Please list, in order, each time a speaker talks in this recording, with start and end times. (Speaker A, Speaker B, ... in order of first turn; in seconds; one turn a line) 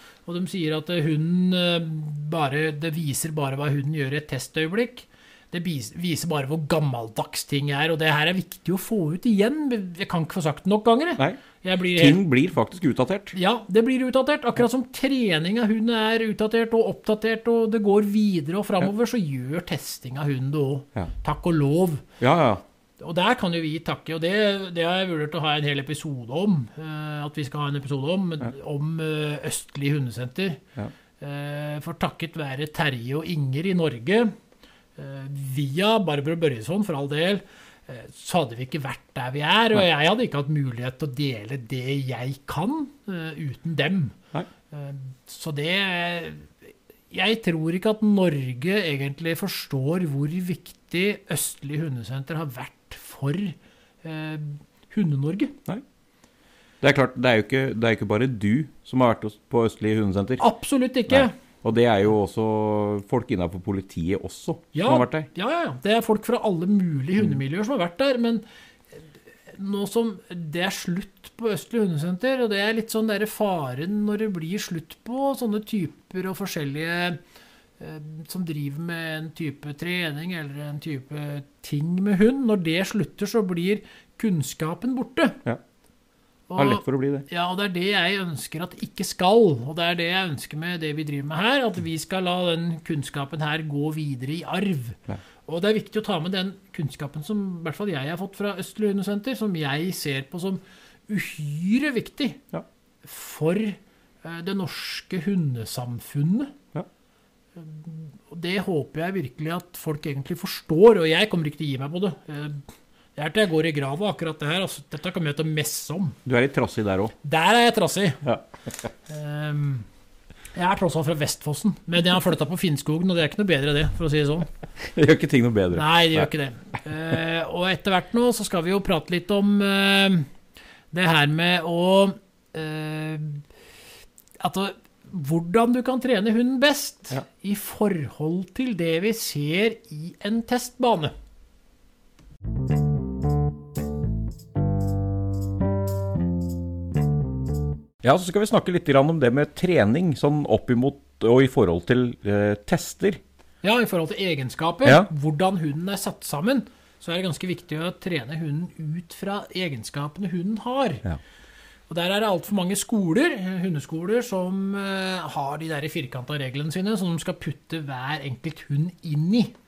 Speaker A: 0.3-12.2
Speaker B: 11.9-13.4
Speaker A: 13.3-22.1
Speaker B: 22.2-22.6
Speaker A: 23.0-30.6
Speaker A: 31.2-34.3
Speaker A: 35.0-44.2
Speaker A: 44.7-46.5
Speaker A: 47.1-55.5
Speaker B: 56.8-60.4
Speaker A: 60.4-61.3
Speaker B: 61.1-65.3
Speaker A: 64.7-68.4
Speaker A: 69.5-77.2
Speaker A: 77.8-85.4
Speaker A: 86.5-102.4
Speaker B: 86.6-87.3
Speaker A: 103.0-106.5
Speaker A: 107.5-112.6
Speaker A: 113.2-116.2
Speaker B: 116.2-117.1
Speaker A: 117.2-118.3
Speaker A: 119.1-119.8
Speaker A: 120.5-124.5
Speaker B: 124.8-126.3
Speaker A: 125.7-130.3
Speaker A: 130.9-133.4
Speaker A: 134.4-141.1
Speaker B: 148.0-153.2
Speaker A: 153.6-161.1
Speaker A: 161.9-169.5